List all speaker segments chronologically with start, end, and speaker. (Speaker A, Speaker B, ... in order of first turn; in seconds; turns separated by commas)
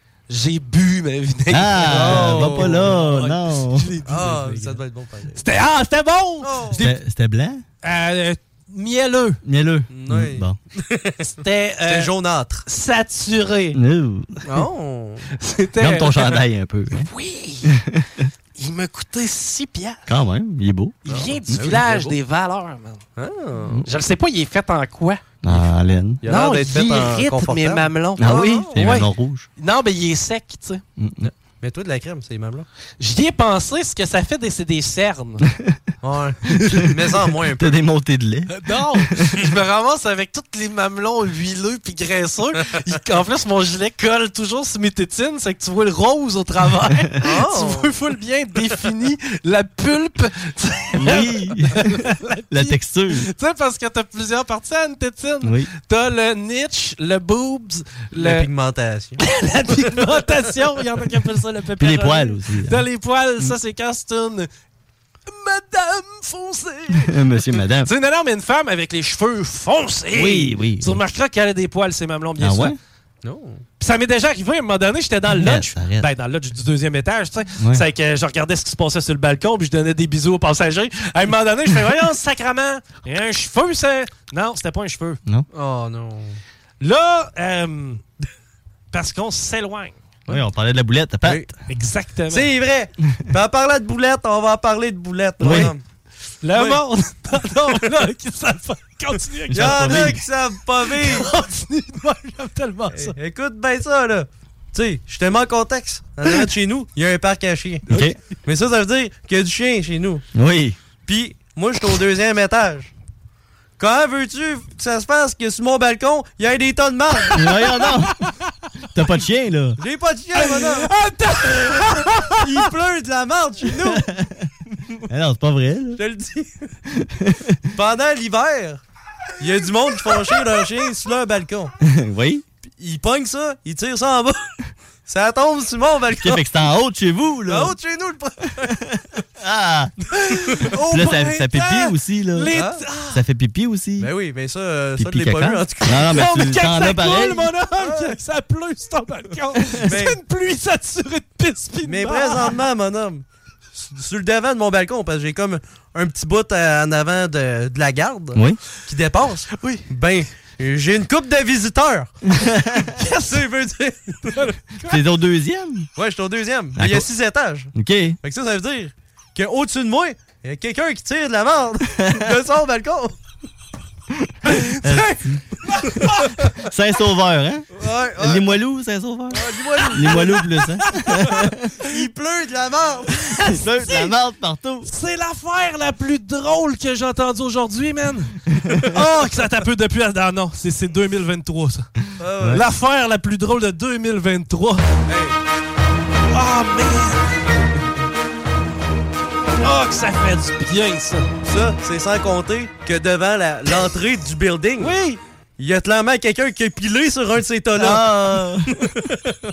Speaker A: 0.3-4.8, Speaker B: 1.5-3.9, Speaker C: 1.8-3.1, Speaker C: 4.0-5.4, Speaker A: 5.3-7.0, Speaker C: 6.4-6.8, Speaker B: 6.8-7.6, Speaker A: 7.8-9.4, Speaker B: 9.4-10.5, Speaker C: 9.9-11.2, Speaker A: 11.2-12.1, Speaker C: 11.8-12.7, Speaker A: 12.6-13.8, Speaker B: 13.7-14.3, Speaker C: 14.4-15.2, Speaker A: 15.3-16.4, Speaker B: 15.8-17.1, Speaker A: 16.9-17.7, Speaker B: 17.6-18.3, Speaker A: 18.6-20.1, Speaker B: 20.1-21.7, Speaker A: 21.1-23.0, Speaker C: 21.1-22.1, Speaker C: 23.1-23.8, Speaker A: 23.8-25.6, Speaker B: 25.4-26.2, Speaker C: 26.2-28.7, Speaker A: 26.2-30.8, Speaker B: 28.2-29.5, Speaker B: 31.0-31.3, Speaker C: 31.2-32.6, Speaker A: 33.0-35.4, Speaker B: 35.5-35.8, Speaker C: 36.0-37.8, Speaker B: 36.5-37.0, Speaker B: 37.5-39.4, Speaker A: 38.5-58.5, Speaker C: 47.2-47.9, Speaker B: 51.0-52.0, Speaker B: 52.5-53.3, Speaker B: 55.4-55.7, Speaker C: 58.1-59.2, Speaker A: 59.2-64.5, Speaker B: 61.8-62.8, Speaker A: 65.3-72.7, Speaker B: 66.9-67.9, Speaker B: 70.1-71.0, Speaker B: 72.4-72.8, Speaker C: 73.2-73.6, Speaker A: 73.8-85.2, Speaker B: 75.3-76.1, Speaker C: 85.5-86.4, Speaker A: 86.8-88.0, Speaker A: 88.9-90.0, Speaker B: 90.3-91.5, Speaker A: 91.7-92.5, Speaker C: 92.3-95.8, Speaker B: 95.4-95.7, Speaker A: 96.4-100.2, Speaker C: 96.5-96.8, Speaker C: 99.5-101.3, Speaker B: 99.5-100.2, Speaker A: 100.9-103.1, Speaker C: 102.9-107.9, Speaker B: 107.9-108.2, Speaker C: 108.4-110.2, Speaker B: 110.3-110.8, Speaker C: 111.0-112.9, Speaker C: 113.8-117.4, Speaker B: 117.3-118.1, Speaker A: 117.4-118.3, Speaker B: 118.9-119.8, Speaker C: 119.8-120.9, Speaker A: 120.3-122.7, Speaker C: 122.3-124.0, Speaker B: 123.8-124.4, Speaker B: 125.1-126.0, Speaker C: 126.0-126.7, Speaker B: 126.9-127.5, Speaker C: 127.7-128.8, Speaker C: 129.4-131.7, Speaker B: 131.8-132.4, Speaker C: 132.7-134.5, Speaker C: 135.1-136.4, Speaker B: 136.2-137.7, Speaker C: 137.5-138.8, Speaker B: 139.4-139.9, Speaker A: 140.1-143.2, Speaker B: 140.9-142.6, Speaker C: 142.5-142.8, Speaker B: 143.1-144.1, Speaker C: 144.0-146.2, Speaker B: 145.0-147.5, Speaker A: 145.9-152.6, Speaker C: 147.8-148.2, Speaker B: 149.6-149.9, Speaker C: 149.8-150.2, Speaker C: 151.8-153.2, Speaker C: 153.8-162.1, Speaker A: 159.5-159.9, Speaker B: 162.3-162.9, Speaker A: 163.0-163.5, Speaker C: 163.0-164.4, Speaker A: 164.2-165.0, Speaker B: 164.8-165.9, Speaker C: 165.9-167.7, Speaker B: 166.8-167.1, Speaker B: 167.7-168.2, Speaker C: 168.2-173.1, Speaker B: 172.0-172.3, Speaker B: 174.2-175.4, Speaker A: 174.4-176.6, Speaker B: 176.5-181.7, Speaker C: 177.7-178.6, Speaker C: 179.3-180.5, Speaker A: 179.8-181.5, Speaker C: 181.8-183.1, Speaker A: 183.1-184.1, Speaker B: 183.4-184.9, Speaker A: 184.8-191.8, Speaker C: 192.2-192.7, Speaker A: 192.5-194.9, Speaker C: 195.1-195.3, Speaker A: 196.3-197.4, Speaker A: 199.6-201.3, Speaker C: 201.4-204.9, Speaker A: 204.8-205.2, Speaker C: 205.6-208.1, Speaker B: 207.8-209.0